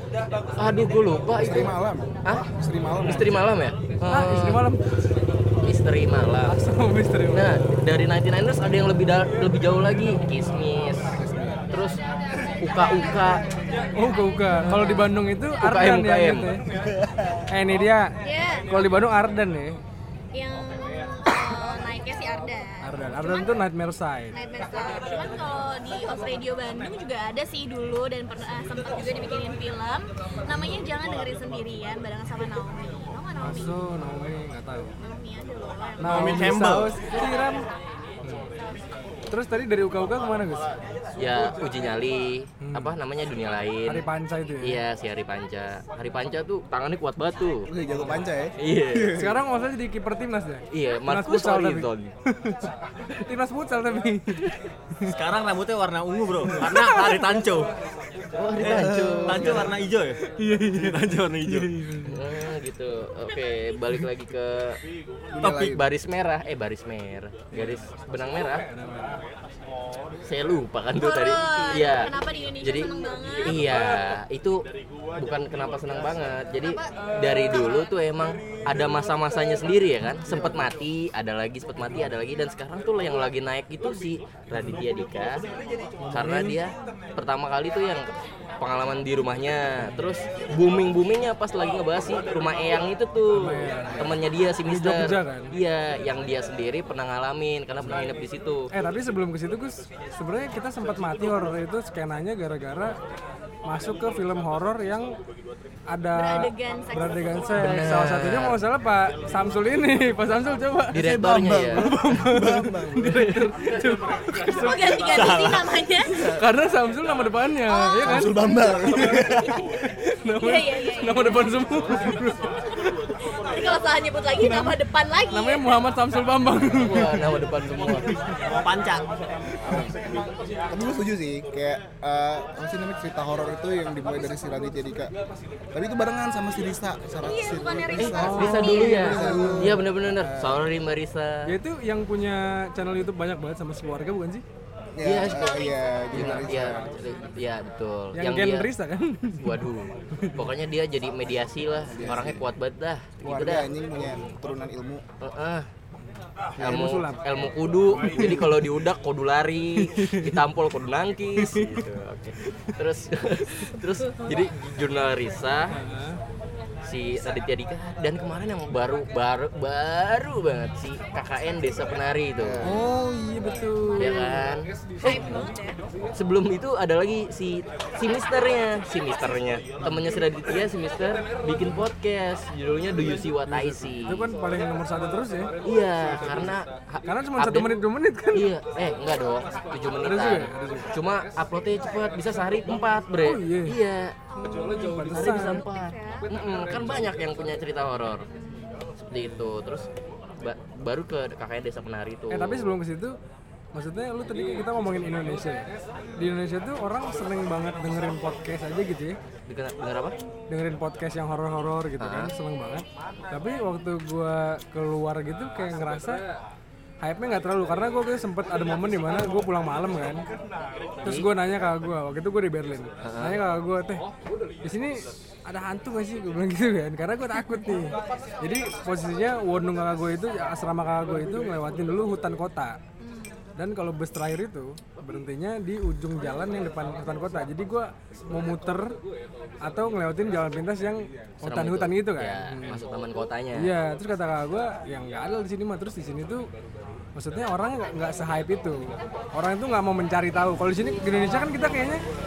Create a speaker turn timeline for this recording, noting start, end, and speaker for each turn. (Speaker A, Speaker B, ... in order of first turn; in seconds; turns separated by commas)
Speaker A: 0.6-1.7, Speaker B: 1.4-3.5, Speaker A: 3.0-4.6, Speaker C: 4.1-4.8, Speaker A: 5.6-6.6, Speaker C: 6.5-7.6, Speaker A: 7.3-11.2, Speaker B: 11.2-11.7, Speaker A: 11.7-12.0, Speaker A: 12.6-13.4, Speaker C: 13.9-16.6, Speaker A: 14.6-16.5, Speaker B: 16.8-17.1, Speaker C: 17.5-18.1, Speaker D: 18.2-18.7, Speaker C: 18.7-19.8, Speaker D: 20.3-23.6, Speaker C: 22.8-24.4, Speaker D: 24.3-33.8, Speaker C: 33.4-34.9, Speaker D: 35.0-36.5, Speaker C: 36.0-37.6, Speaker E: 36.0-37.0, Speaker C: 39.3-40.7, Speaker A: 41.2-44.0, Speaker C: 42.6-42.9, Speaker C: 43.9-44.8, Speaker A: 44.6-47.7, Speaker B: 47.6-49.4, Speaker A: 48.6-49.2, Speaker C: 49.1-55.1, Speaker A: 50.7-52.1, Speaker E: 55.0-57.7, Speaker C: 56.4-57.2, Speaker A: 58.4-59.7, Speaker B: 58.6-59.6, Speaker E: 58.6-61.7, Speaker C: 60.4-62.2, Speaker A: 62.0-64.8, Speaker B: 65.3-65.8, Speaker A: 65.4-68.6, Speaker C: 67.5-69.2, Speaker A: 70.2-74.6, Speaker D: 70.9-73.8, Speaker A: 75.2-85.4, Speaker D: 76.6-77.9, Speaker C: 86.0-86.6, Speaker A: 86.1-88.1, Speaker A: 88.6-98.7, Speaker C: 89.8-90.1, Speaker C: 93.3-95.5, Speaker C: 98.7-103.0, Speaker C: 103.7-105.2, Speaker C: 105.9-111.0, Speaker D: 106.1-107.5, Speaker A: 107.6-108.6, Speaker A: 110.9-111.9, Speaker B: 110.9-113.3, Speaker C: 111.7-115.2, Speaker D: 114.4-116.2, Speaker E: 115.1-115.7, Speaker C: 116.2-122.5, Speaker D: 117.7-118.2, Speaker B: 118.0-119.6, Speaker D: 120.4-121.6, Speaker D: 123.2-125.8, Speaker C: 124.4-124.8, Speaker C: 125.3-127.3, Speaker A: 126.8-128.2, Speaker C: 127.8-128.3, Speaker E: 128.4-129.0, Speaker B: 129.6-135.1, Speaker B: 135.7-140.6, Speaker D: 137.2-139.6, Speaker A: 138.0-141.5, Speaker C: 138.2-139.8, Speaker C: 141.4-144.4, Speaker B: 144.9-146.9, Speaker A: 145.0-145.6, Speaker D: 145.2-146.4, Speaker A: 146.1-148.7, Speaker C: 148.1-149.6, Speaker A: 149.4-153.7, Speaker C: 150.2-150.5, Speaker B: 151.9-152.5, Speaker B: 153.2-155.0, Speaker A: 155.2-155.7, Speaker C: 156.6-157.2, Speaker A: 156.6-165.7, Speaker C: 158.1-158.4, Speaker C: 159.8-160.4, Speaker C: 161.4-161.8, Speaker C: 165.7-166.2, Speaker A: 166.8-172.8, Speaker B: 172.4-172.8, Speaker C: 172.6-174.4, Speaker D: 172.7-174.4, Speaker A: 173.9-175.3, Speaker D: 175.0-175.8, Speaker A: 176.1-184.3, Speaker C: 179.8-180.2, Speaker C: 183.5-185.5, Speaker A: 185.6-187.8, Speaker C: 187.0-188.5, Speaker A: 188.3-194.2, Speaker C: 190.0-190.9, Speaker C: 193.2-193.8, Speaker D: 194.3-196.3, Speaker C: 194.4-195.6, Speaker A: 194.7-198.2, Speaker D: 198.3-198.9, Speaker A: 199.0-199.9, Speaker A: 200.4-202.7, Speaker C: 202.3-203.2, Speaker C: 203.7-209.2, Speaker A: 209.5-210.1, Speaker C: 210.5-216.2, Speaker A: 212.0-212.3, Speaker C: 217.0-220.2, Speaker C: 221.0-224.0, Speaker A: 223.0-223.4, Speaker C: 224.6-232.8, Speaker D: 233.0-233.4, Speaker C: 233.6-238.9, Speaker C: 239.6-242.8, Speaker A: 241.4-243.7, Speaker C: 243.6-246.4, Speaker C: 247.2-252.0